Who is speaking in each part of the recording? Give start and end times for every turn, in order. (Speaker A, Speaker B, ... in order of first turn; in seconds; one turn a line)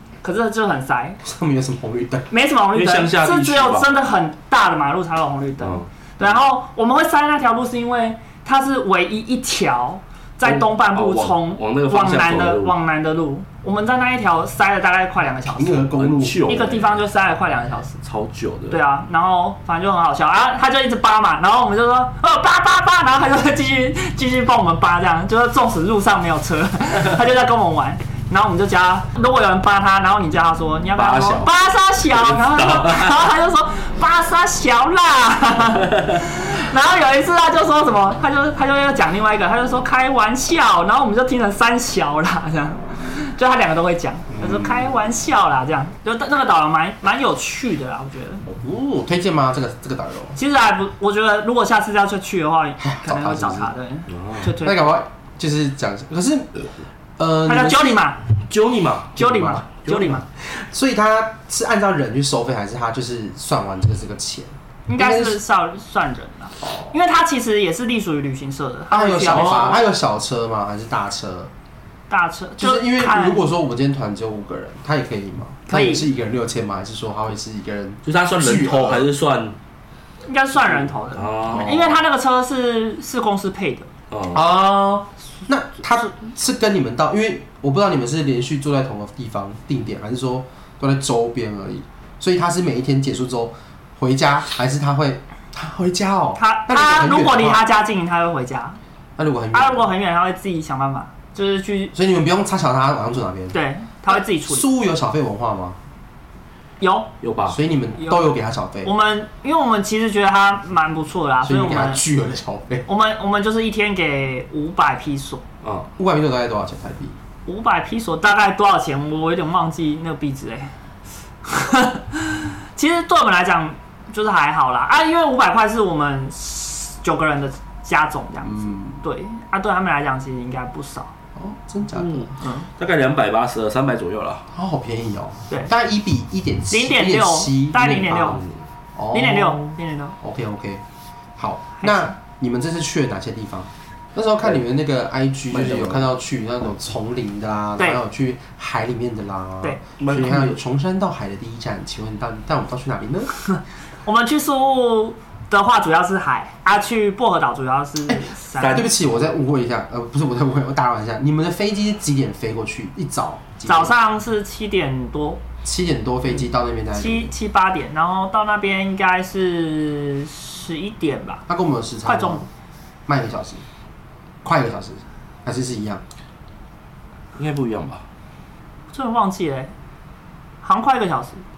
Speaker A: 0.2-1.2
Speaker B: 1.2-2.3
Speaker A: 2.3-15.9
Speaker C: 2.7-3.9
Speaker C: 10.4-12.8
Speaker B: 15.5-16.4
Speaker C: 16.0-17.0
Speaker A: 16.4-18.0
Speaker C: 18.0-18.8
Speaker A: 18.7-48.4
Speaker C: 30.9-31.5
Speaker C: 32.0-33.3
Speaker C: 35.9-36.2
Speaker B: 44.3-44.9
Speaker B: 48.5-50.4
Speaker A: 50.4-54.9
Speaker B: 52.8-53.7
Speaker C: 54.1-54.5
Speaker B: 54.5-58.0
Speaker A: 57.5-58.2
Speaker C: 58.5-60.2
Speaker A: 59.2-60.2
Speaker B: 59.2-59.6
Speaker B: 60.4-65.4
Speaker A: 64.9-69.8
Speaker B: 66.6-66.9
Speaker B: 68.9-71.5
Speaker C: 69.3-69.8
Speaker A: 72.1-73.5
Speaker B: 72.6-79.1
Speaker A: 75.7-76.1
Speaker C: 78.0-79.5
Speaker A: 80.2-83.9
Speaker C: 81.1-81.8
Speaker B: 81.5-82.0
Speaker C: 84.1-84.4
Speaker B: 84.3-97.7
Speaker A: 96.4-98.8
Speaker B: 99.2-99.9
Speaker A: 99.5-101.9
Speaker B: 101.9-103.5
Speaker A: 103.5-104.7
Speaker B: 104.1-105.8
Speaker A: 106.8-107.1
Speaker C: 107.2-107.6
Speaker B: 107.5-108.9
Speaker A: 108.0-112.0
Speaker B: 111.4-112.8
Speaker A: 112.9-115.4
Speaker C: 115.6-115.9
Speaker B: 116.0-117.2
Speaker A: 117.5-120.7
Speaker A: 121.4-131.1
Speaker B: 128.4-129.0
Speaker B: 131.3-132.3
Speaker C: 131.9-134.4
Speaker A: 132.4-132.7
Speaker B: 134.5-138.4
Speaker A: 136.7-138.4
Speaker B: 138.9-140.8
Speaker A: 139.1-140.1
Speaker B: 141.4-153.3
Speaker A: 141.8-142.1
Speaker C: 145.5-146.1
Speaker C: 150.0-150.6
Speaker A: 153.5-158.9
Speaker B: 158.1-163.9
Speaker C: 158.6-158.9
Speaker A: 163.7-165.4
Speaker B: 165.6-167.3
Speaker A: 166.9-171.4
Speaker B: 171.5-172.5
Speaker A: 172.1-172.4
Speaker B: 173.1-173.6
Speaker B: 174.4-176.0
Speaker C: 177.3-178.0
Speaker A: 178.9-179.7
Speaker A: 180.6-181.4